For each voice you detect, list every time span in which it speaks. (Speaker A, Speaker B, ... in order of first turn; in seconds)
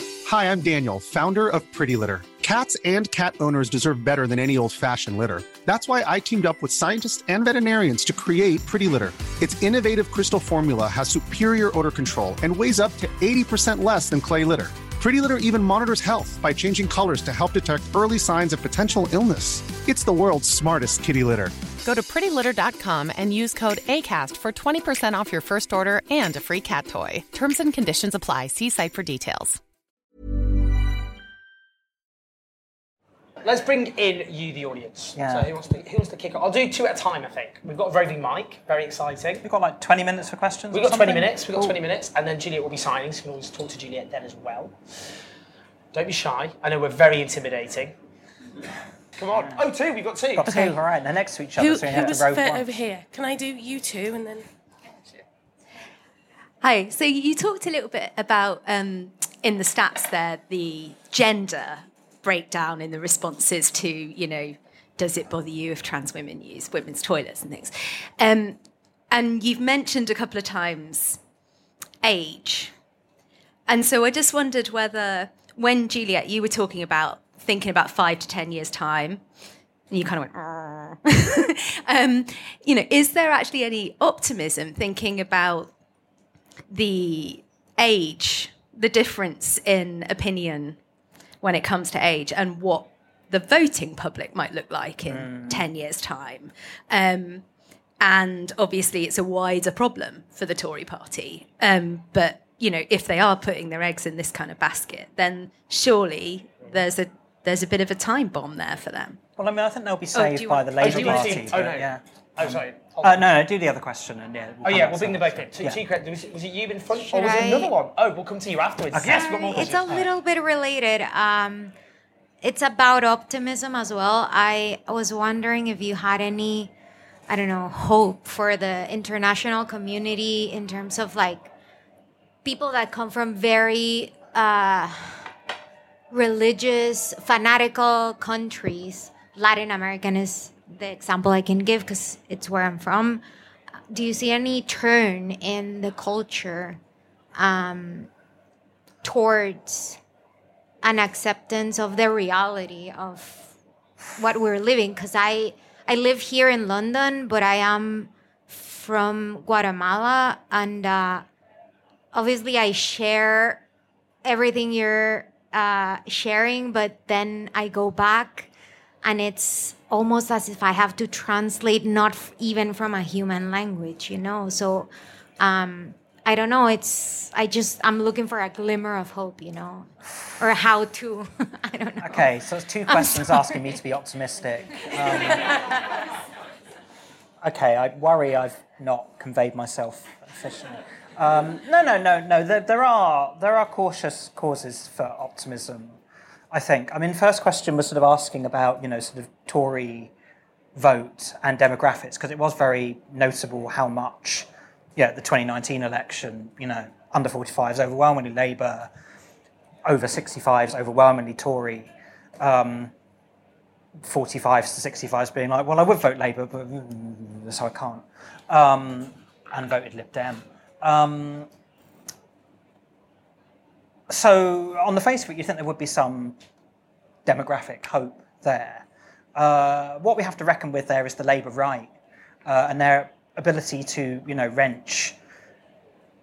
Speaker A: 0.2-21.6
Speaker B: 21.8-29.6
Speaker C: 33.4-39.4, 40.7-44.8, 45.9-47.9, 49.2-50.5, 110.8-113.2, 114.6-119.9
Speaker D: 35.2-35.5, 39.4-41.8, 50.4-52.7, 95.1-95.7, 109.4-115.8, 118.9-120.1, 182.0-185.5, 187.4-196.0, 196.5-200.1, 200.8-208.9, 209.8-212.9, 214.0-221.5, 224.1-226.4, 227.3-231.9, 232.5-235.2
Speaker E: 51.6-54.5
Speaker F: 56.6-68.6, 69.1-71.2, 72.0-72.7, 73.7-79.2, 79.9-85.7, 86.7-90.8, 91.4-97.4, 98.0-109.2, 110.1-111.4
Speaker G: 117.1-117.7, 119.1-121.7, 122.4-126.7, 127.3-131.5, 132.4-135.3, 136.1-143.2, 143.9-146.8, 147.4-148.1, 149.0-150.0, 150.8-153.5, 154.2-161.3, 162.1-163.6, 164.2-168.5, 169.0-182.3, 182.9-183.6